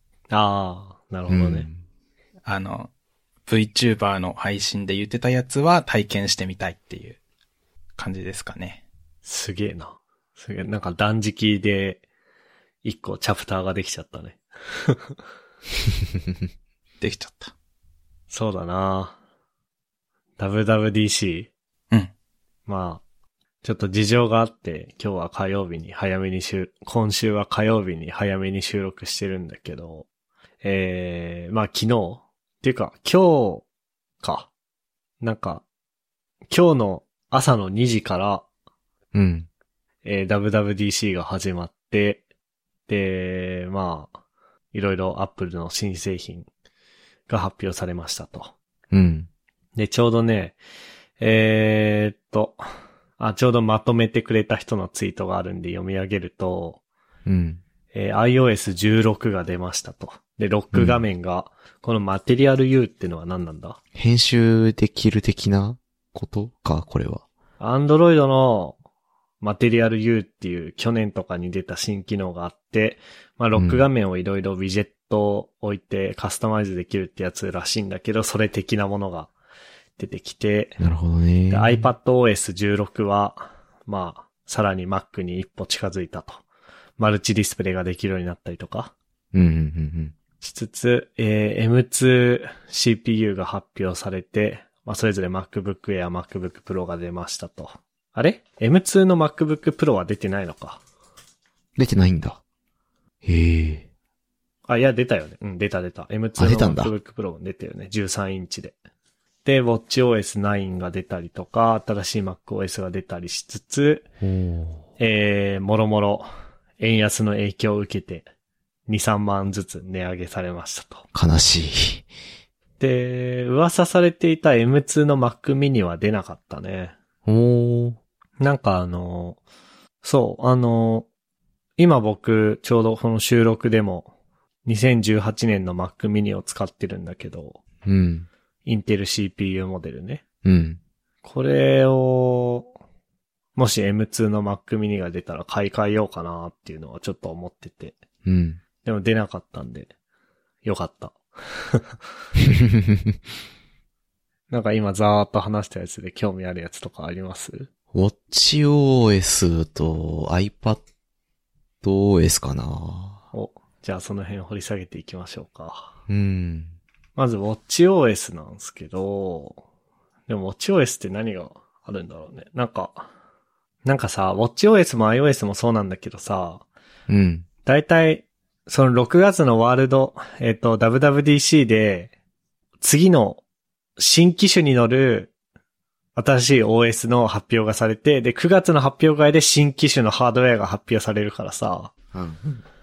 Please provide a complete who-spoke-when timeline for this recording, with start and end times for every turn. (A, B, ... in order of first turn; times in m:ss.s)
0:00.3-0:01.7 A
0:01.3-0:01.8 B
0:02.4-0:02.9 C
0:03.5-0:07.2 C
0:08.0-0:08.8 C
0:09.2-0:12.0 A
0:12.8-0:15.2 A
0:17.0-0:17.5 C
0:18.3-0:19.2 A
0:20.4-0:21.5 A
0:22.7-0:23.0 A
0:23.6-0:30.0 A
0:30.6-0:33.6 A
0:34.2-0:34.5 A
0:35.2-0:35.6 A
0:36.5-0:38.4 A
0:39.1-0:39.5 B
0:40.0-0:42.2 A
0:42.9-0:44.2 A
0:44.7-0:46.5 A
0:47.3-0:48.5 A
0:48.9-0:49.3 B
0:49.8-0:50.6 A
0:51.2-0:52.6 A
0:53.2-0:56.8 A
0:57.2-0:57.6 B
0:57.9-1:03.8 A
1:00.7-1:01.0 B
1:03.9-1:07.2 B
1:07.6-1:08.8 A
1:09.4-1:19.3 A
1:13.5-1:13.8 B
1:20.0-1:20.8 A
1:20.8-1:21.8 B
1:21.5-1:26.4 A
1:27.0-1:28.9 A
1:29.3-1:30.1 B
1:30.4-1:40.8 A
1:41.8-1:42.4 B
1:43.2-1:43.8 B
1:44.7-1:48.7 A
1:46.4-1:46.9 B
1:49.4-1:54.0 A
1:54.2-1:54.8 B
1:55.0-1:56.3 A
1:56.8-1:58.3 A
1:58.9-2:01.0 A
2:01.1-2:02.0 B
2:02.8-2:06.9 A
2:07.2-2:08.0 B
2:08.4-2:09.4 A
2:10.0-2:11.1 A
2:11.8-2:14.1 A
2:14.6-2:17.6 A
2:17.8-2:18.3 B
2:18.6-2:20.2 A
2:20.4-2:20.8 B
2:21.2-2:22.7 A
2:23.5-2:28.0 A
2:28.2-2:28.6 B
2:28.8-2:29.9 A
2:30.6-2:32.0 A
2:32.6-2:33.1 B
2:34.5-2:37.7 A
2:37.9-2:40.8 B
2:41.8-2:43.2 B
2:43.3-2:45.9 A
2:46.1-2:46.7 B
2:47.2-2:49.6 A
2:50.3-2:53.1 A
2:53.8-2:56.6 A
2:57.1-2:57.4 B
2:57.6-3:02.1 A
3:02.8-3:03.4 A
3:04.0-3:05.3 A
3:06.2-3:11.9 A
3:12.1-3:12.6 B